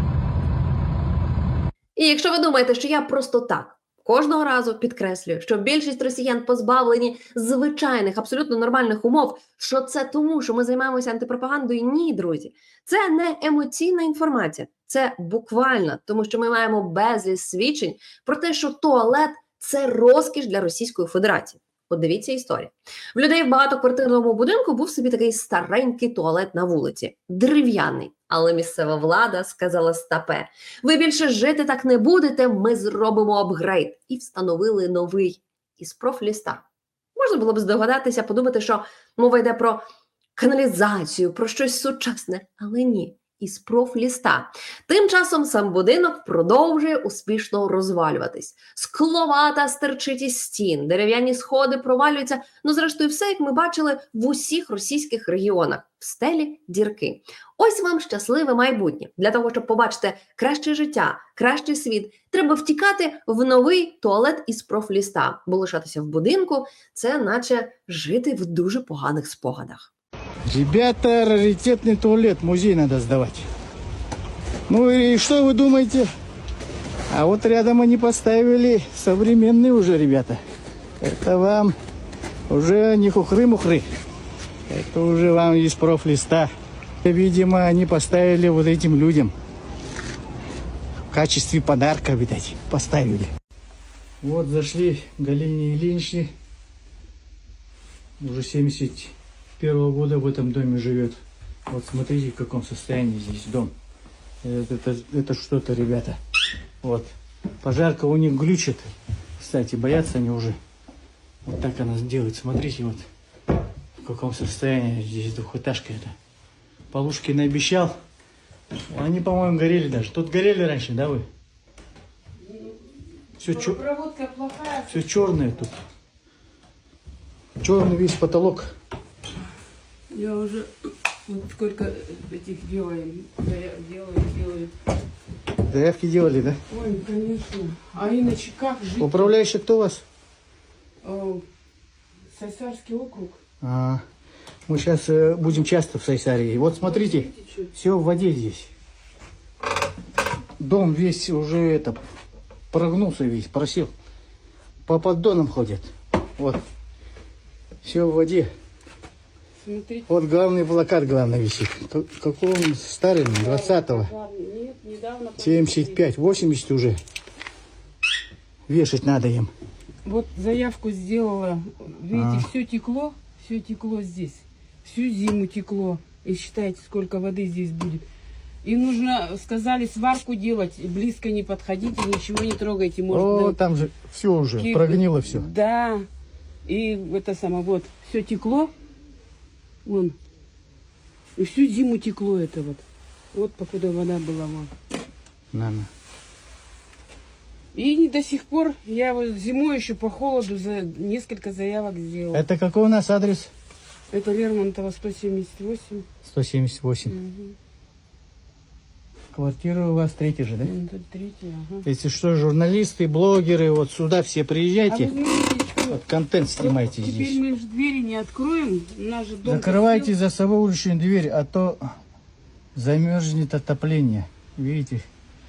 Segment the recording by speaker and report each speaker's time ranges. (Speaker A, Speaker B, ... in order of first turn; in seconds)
Speaker A: 2.0-36.6, 37.2-39.8, 40.4-69.9
Speaker B: 70.5-73.5, 74.7-76.1, 77.1-80.4, 81.0-81.8, 82.5-83.8, 84.7-86.5, 87.0-89.3, 91.1-93.3, 94.2-96.3, 98.2-103.7, 104.4-106.2, 106.8-110.6, 111.5-113.1, 114.0-116.2, 116.9-118.0, 118.9-121.3, 123.4-123.8, 124.9-125.7, 127.6-128.7, 135.7-136.6, 139.0-140.0, 143.6-144.0, 144.7-148.7, 150.6-152.0, 152.7-153.9, 154.9-156.6, 157.8-158.5, 160.1-164.1, 165.4-167.0, 168.7-169.5, 172.1-172.5, 183.1-185.5, 195.5-195.9, 202.3-203.5, 206.2-207.1, 209.3-210.7, 211.8-215.1, 215.9-217.4, 219.4-221.8, 222.8-225.0
Speaker C: 123.4-125.2, 130.1-130.7, 131.3-134.7, 136.7-139.3, 141.0-141.4, 142.3-143.4, 146.8-147.7, 159.6-160.1, 163.4-166.0, 170.0-178.0, 178.6-183.6, 184.6-186.1, 186.7-188.7, 189.8-190.2, 191.4-192.8, 193.3-194.7, 197.7-202.4, 204.1-206.1, 207.1-207.6, 210.7-211.8, 214.9-216.0, 216.6-220.1